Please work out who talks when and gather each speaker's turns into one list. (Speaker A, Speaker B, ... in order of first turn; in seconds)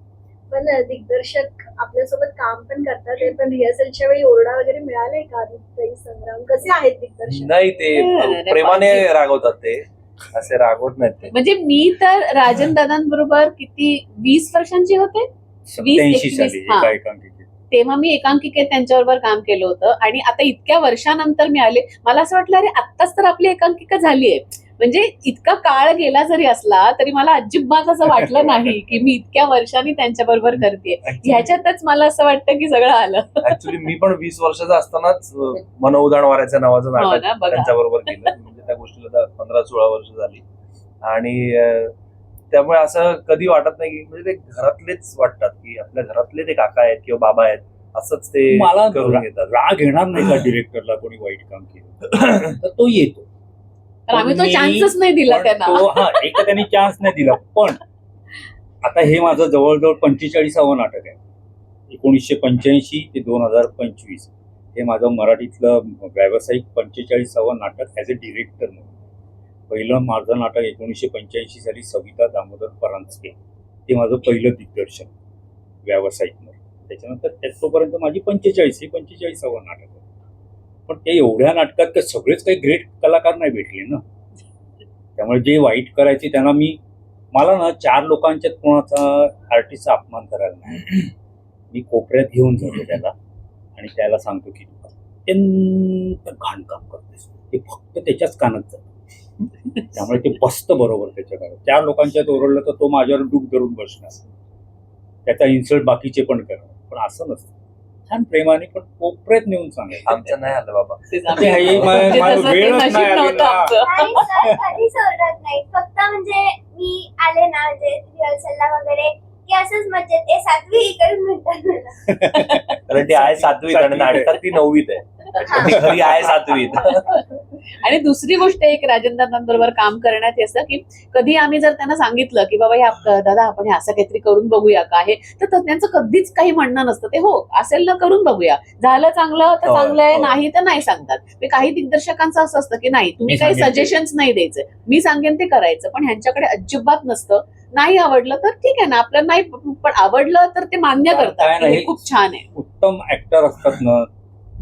Speaker A: 0.5-7.9
Speaker B: 7.3-11.3, 31.0-31.5, 33.4-40.4, 41.0-41.9, 42.5-49.5, 52.2-52.5, 110.0-112.8, 122.9-127.1, 139.6-140.4
Speaker C: 8.0-9.1, 11.3-16.9, 17.7-33.4, 37.0-38.3, 54.1-56.5, 111.1-114.3, 122.3-122.8, 127.8-152.5
Speaker D: 15.7-17.5, 28.1-28.7, 48.5-53.3, 54.1-57.8, 58.8-61.2, 61.9-68.9, 69.7-75.1, 75.8-80.0, 80.9-84.0, 85.2-86.8, 87.3-91.1, 91.7-93.2, 93.8-98.8, 99.9-104.2, 105.2-107.5, 108.1-110.3, 111.3-114.5, 122.1-124.5, 125.5-126.6, 143.3-144.0, 151.0-154.1
Speaker E: 113.7-122.0